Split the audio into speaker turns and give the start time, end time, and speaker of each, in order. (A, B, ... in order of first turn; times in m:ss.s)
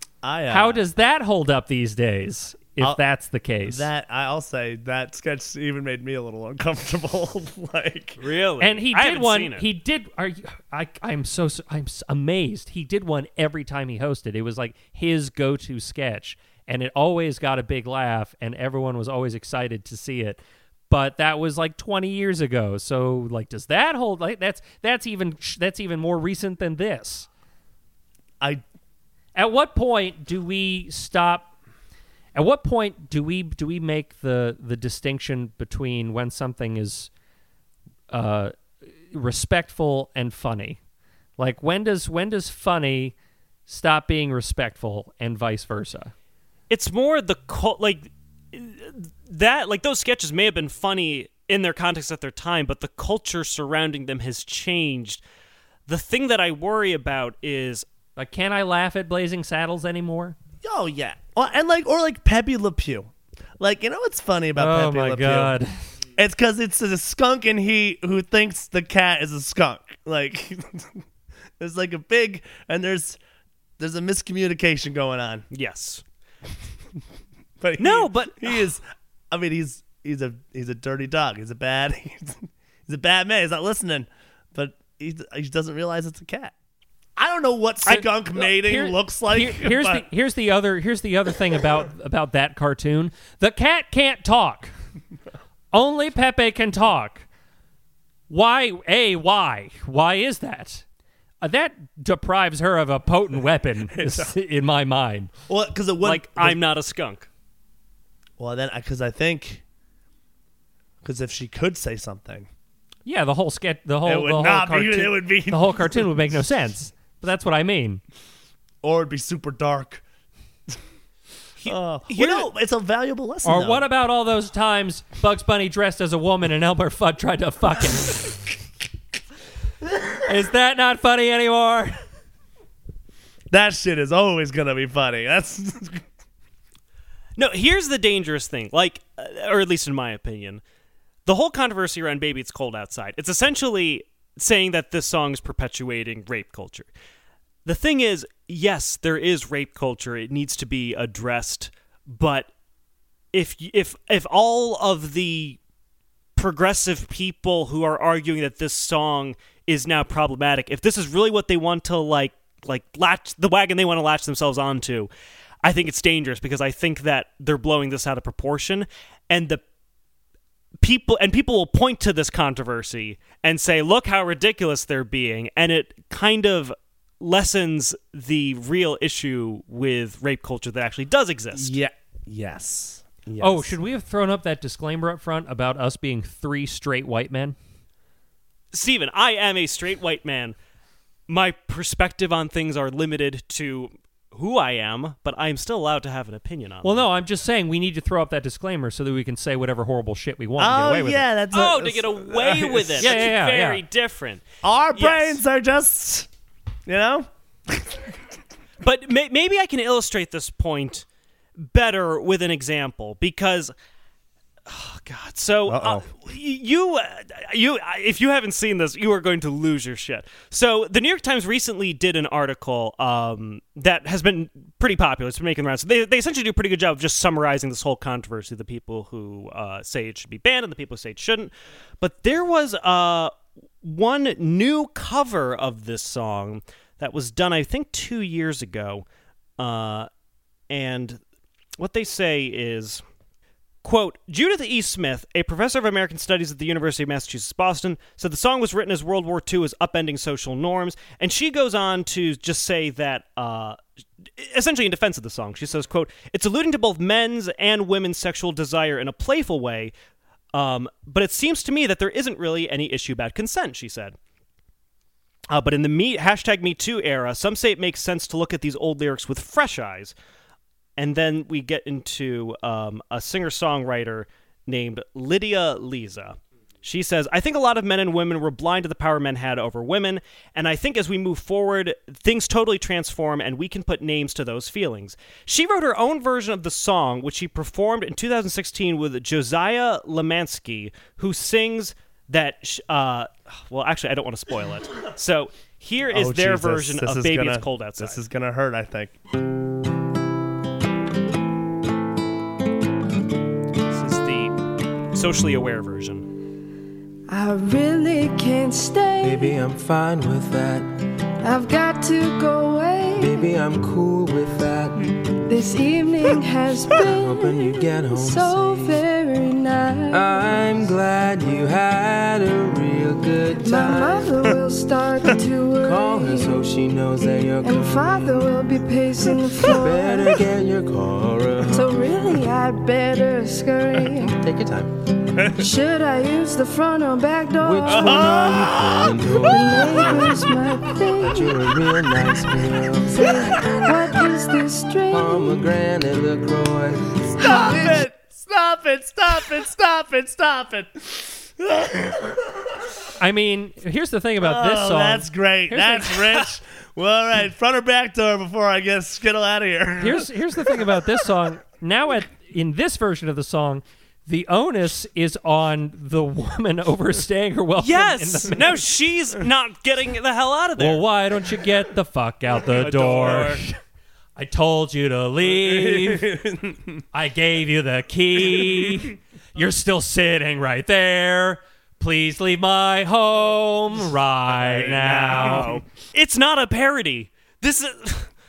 0:00.2-0:00.8 A
0:00.5-0:03.9 B
0:03.6-0:08.2 A
0:08.2-0:09.6 C
0:08.6-0:27.3 B
0:29.4-0:31.5 B
0:32.4-0:37.1 B
0:38.1-0:38.5 B
0:39.1-0:40.8 B
0:41.4-0:43.1 B
0:43.7-0:46.1 B
0:46.7-0:55.2 C
0:55.9-0:57.9 C
0:58.2-1:00.4 B
1:00.6-1:05.6 A
1:04.6-1:05.7 B
1:06.2-1:11.0 A
1:11.6-1:13.2 A
1:13.8-1:15.4 A
1:15.5-1:16.0 C
1:17.6-1:26.5 A
1:17.8-1:18.6 C
1:27.2-1:30.1 A
1:27.9-1:34.7 B
1:35.7-1:37.3 B
1:38.3-1:40.8 B
1:41.4-1:45.3 B
1:43.9-1:44.4 A
1:45.5-1:46.6 A
1:46.0-1:47.3 C
1:48.4-1:49.6 A
1:51.0-1:52.5 A
1:53.1-1:58.0 B
1:54.0-1:56.4 A
1:58.8-2:00.0 A
2:01.6-2:02.5 C
2:01.7-2:03.9 A
2:03.4-2:08.5 B
2:10.2-2:12.0 B
2:13.5-2:16.0 A
2:17.4-2:20.6 C
2:21.3-2:26.9 C
2:27.6-2:32.5 C
2:33.3-2:35.6 C
2:36.4-2:45.1 C
2:45.6-2:49.6 C
2:50.8-3:01.8 C
3:01.5-3:03.8 A
3:03.4-3:07.6 B
3:08.7-3:10.6 C
3:11.3-3:17.1 C
3:16.8-3:21.3 B
3:20.6-3:23.3 A
3:21.5-3:25.4 C
3:23.0-3:23.8 B
3:24.6-3:26.3 A
3:26.9-3:28.2 A
3:28.8-3:31.1 C
3:31.6-3:33.7 C
3:34.7-3:59.0 C
3:35.7-3:36.1 A
3:59.6-4:00.1 C
4:00.7-4:01.2 C
4:01.8-4:03.0 C
4:03.8-4:13.8 C
4:14.4-4:19.9 C
4:20.5-4:24.2 C
4:25.5-4:30.2 C
4:31.0-4:58.2 C
4:56.1-4:59.2 A
5:03.9-5:04.6 C
5:05.1-5:06.3 C
5:07.3-5:09.6 D
5:09.2-5:10.9 E
5:11.4-5:13.5 D
5:13.2-5:15.2 E
5:15.5-5:20.9 D
5:16.9-5:19.0 E
5:20.1-5:24.6 E
5:23.6-5:26.6 D
5:25.8-5:28.5 E
5:27.4-5:30.4 D
5:29.6-5:32.1 E
5:31.7-5:34.4 D
5:34.3-5:34.9 E
5:35.5-5:38.8 D
5:37.6-5:40.5 E
5:37.9-5:39.2 A
5:39.4-5:41.8 D
5:41.2-5:43.7 E
5:43.1-5:45.6 D
5:45.1-5:47.3 E
5:47.4-5:48.0 D
5:47.4-5:52.9 A
5:53.2-5:56.5 B
5:54.4-6:01.1 A
6:00.0-6:08.8 B
6:07.8-6:11.1 C
6:10.8-6:13.8 B
6:12.8-6:13.6 C
6:14.4-6:16.4 B
6:15.5-6:17.0 A
6:17.1-6:25.8 B
6:24.5-6:25.8 A
6:25.4-6:28.3 C